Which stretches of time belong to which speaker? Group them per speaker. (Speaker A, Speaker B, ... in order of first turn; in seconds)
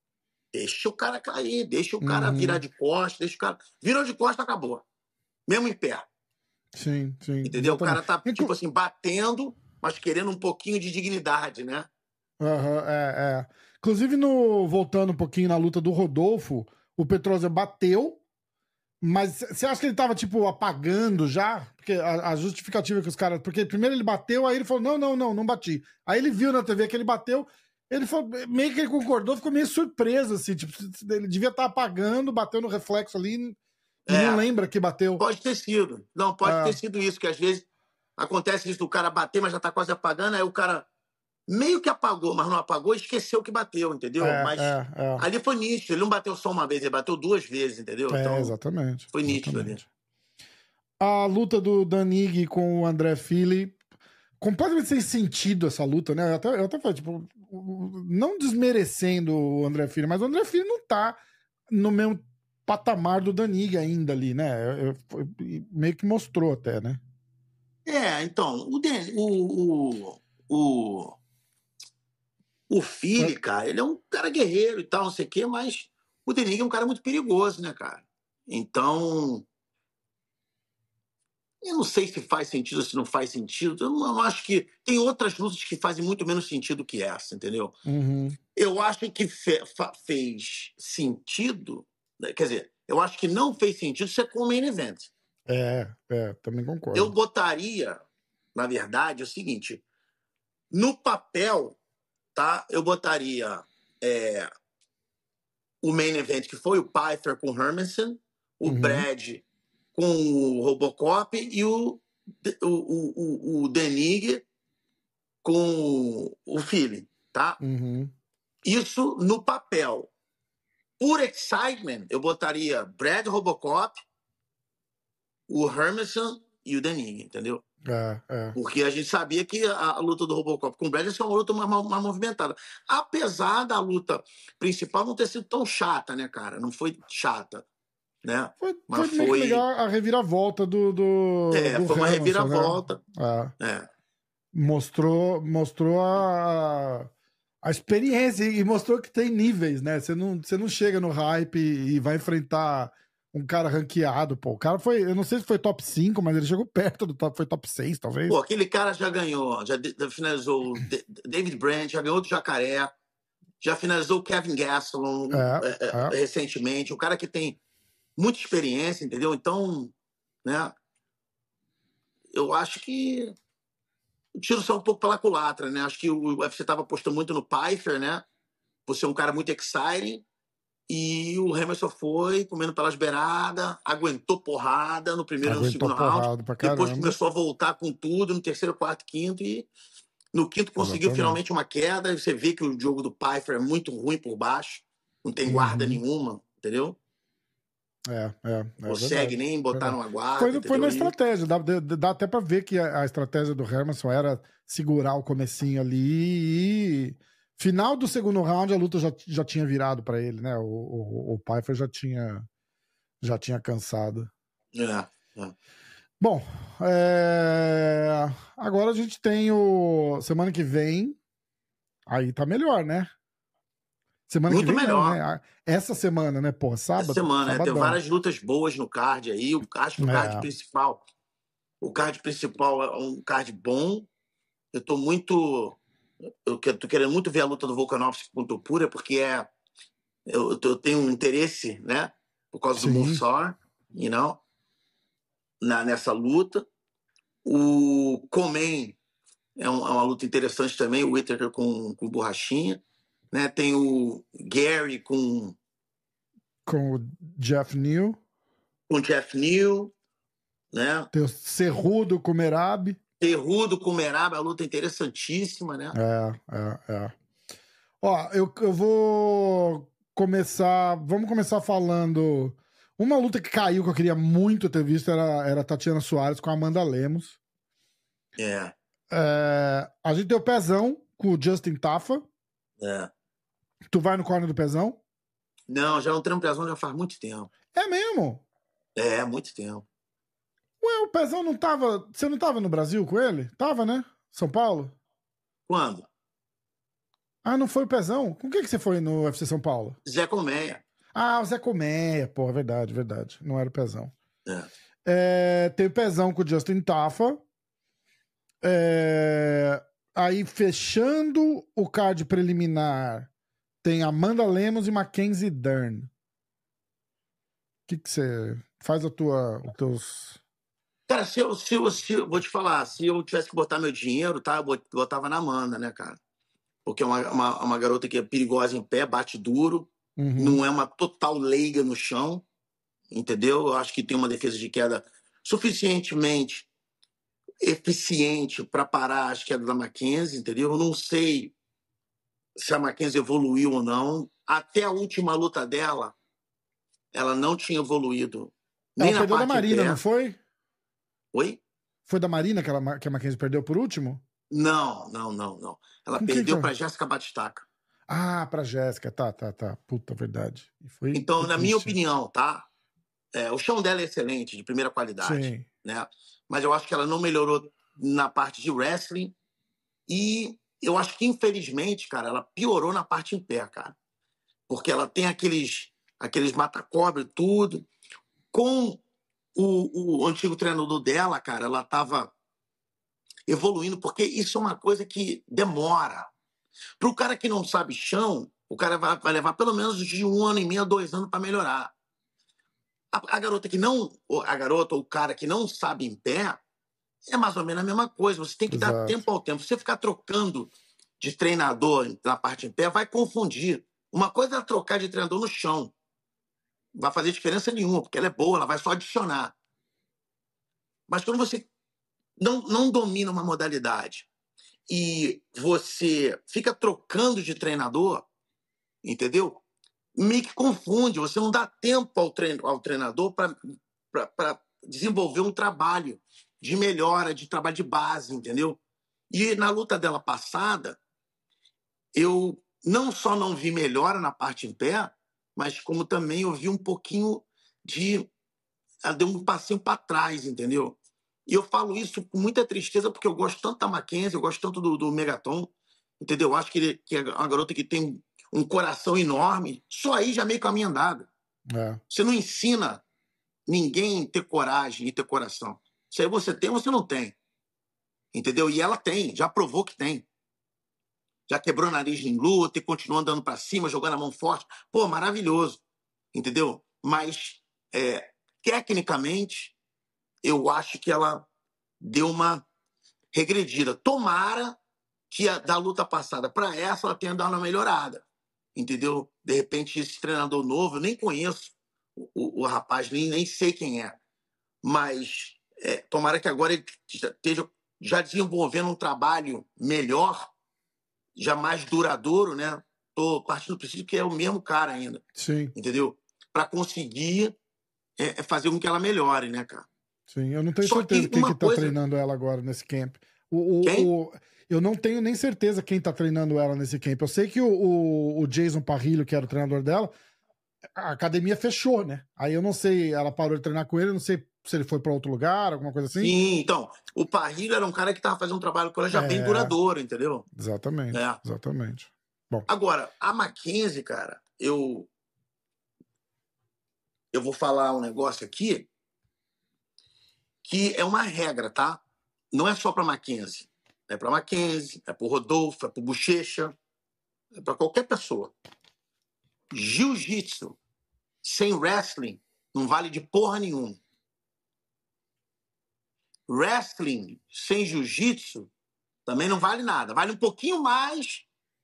Speaker A: 0.5-4.8, 5.5-6.0, 7.4-11.9, 34.1-34.4, 35.2-37.6, 38.2-40.9, 41.5-48.5, 49.1-49.8, 67.8-71.2, 72.7-79.5, 81.6-87.7, 88.5-95.1, 96.9-98.0, 98.5-99.8, 100.7-101.8, 102.3-104.5, 105.8-109.4, 109.9-114.4, 115.4-117.6, 118.6-120.1, 121.0-124.0, 125.5-127.6, 128.5-137.6, 138.2-139.6, 141.5-143.0, 143.6-143.9, 158.3-162.9, 163.6-167.6, 168.2-169.9, 170.4-170.7, 172.3-173.3, 174.4-178.2, 178.8-180.2, 180.9-189.7, 190.3-197.0, 198.8-201.1, 214.7-215.5, 224.5-225.2, 227.0-231.0, 231.8-234.1, 234.7-235.8, 236.4-239.5, 240.3-244.4, 245.6-246.6, 247.4-249.0, 249.6-252.8, 253.3-255.6, 258.9-259.9, 260.7-261.1, 263.2-265.9, 278.4-278.7, 282.8-283.1, 285.7-287.5, 288.9-289.8, 295.7-296.1, 300.0-300.8, 321.1-326.2, 326.9-332.4, 333.1-336.7, 337.6-341.5, 342.6-346.1, 347.1-350.0, 351.3-351.6, 354.5-357.6, 361.1-362.6, 363.3-369.3, 370.1-373.9, 374.7-377.8, 378.5-379.0, 379.5-382.3, 383.5-386.3, 387.0-391.9, 393.1-396.6, 397.3-405.9, 406.9-409.5, 411.1-411.7, 412.4-414.3, 414.9-418.2, 419.0-419.6, 420.1-423.6, 424.1-428.8, 429.3-431.0, 432.1-438.3, 439.0-440.9, 441.5-451.3, 452.1-453.0, 453.7-457.4, 458.3-460.2, 461.5-465.8, 466.3-469.7, 470.4-471.4, 472.0-472.6, 473.3-474.8, 475.3-478.2, 478.8-484.1, 484.8-490.5, 491.4-495.2, 495.7-497.5, 498.2-499.9, 500.8-501.9, 503.8-504.1, 516.1-520.5, 521.1-521.4, 522.7-525.1, 527.3-528.9, 530.6-532.0, 532.5-536.7, 537.5-538.5, 539.7-540.8, 541.4-544.0, 546.5-548.7, 549.2-551.4
Speaker B: 2.0-2.6, 6.7-8.5, 12.4-18.2, 19.0-33.6, 34.1-35.2, 36.4-36.8, 44.2-45.2, 48.1-49.9, 51.0-53.8, 54.4-67.0, 87.8-88.4, 95.5-97.1, 108.6-109.0, 117.6-118.1, 127.8-128.6, 138.6-143.5, 144.5-147.1, 147.6-158.4, 165.3-166.2, 185.4-187.2, 190.8-191.4, 195.5-196.0, 198.1-212.4, 213.2-214.3, 216.2-221.2, 222.1-223.1, 224.3-228.0, 230.0-230.5, 242.8-243.2, 256.6-258.2, 261.1-263.0, 265.9-267.1, 268.0-277.4, 279.1-282.2, 283.9-285.0, 287.7-288.4, 290.8-294.9, 297.4-300.0, 301.1-304.1, 305.0-307.4, 308.6-313.3, 313.8-316.1, 317.9-320.4, 330.2-330.6, 349.0-350.4, 352.1-354.2, 356.2-356.7, 358.1-361.9, 365.2-365.7, 398.7-399.2, 451.7-452.0, 495.4-495.7, 500.3-510.1, 510.9-516.3, 519.1-519.7, 520.5-522.7